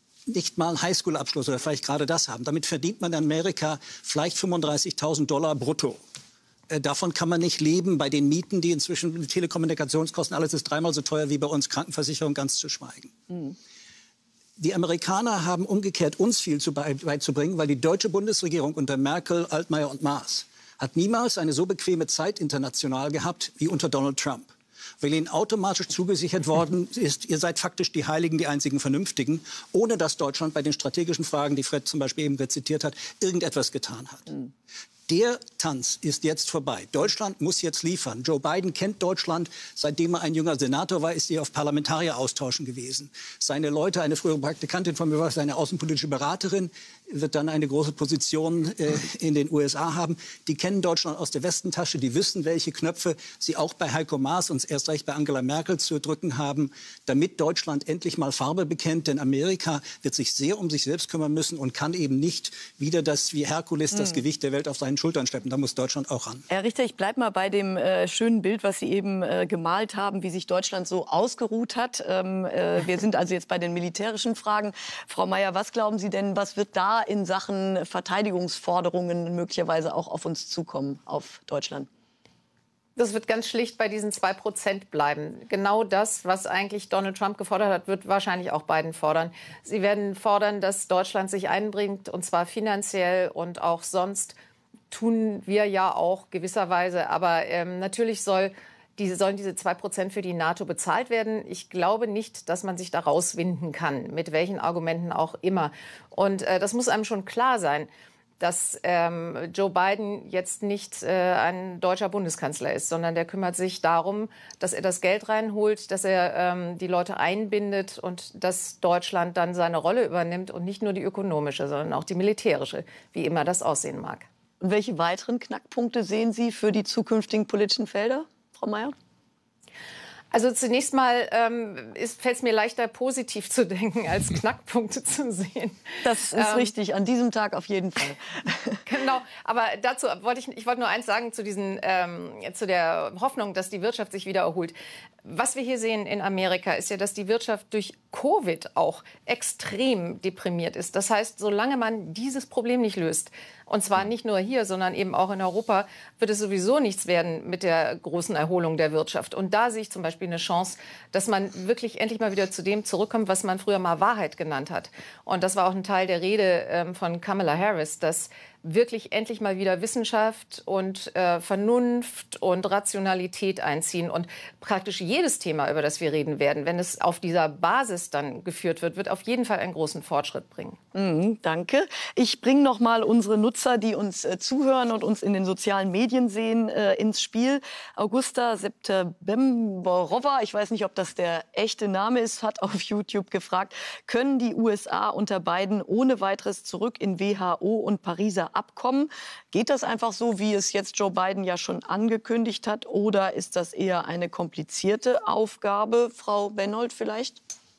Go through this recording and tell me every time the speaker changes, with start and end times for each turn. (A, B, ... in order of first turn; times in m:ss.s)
0:00.3-0:06.0 A
0:06.7-0:13.2 A
0:14.6-0:34.3 A
0:35.1-1:06.4 A
1:03.9-1:04.2 B
1:06.5-1:21.9 B
1:23.0-1:34.3 C
1:34.9-1:47.9 C
1:48.4-2:04.2 C
2:04.6-2:08.9 B
2:10.3-2:16.7 C
2:16.0-2:18.8 B
2:18.8-3:00.8 C
3:00.9-3:27.4 B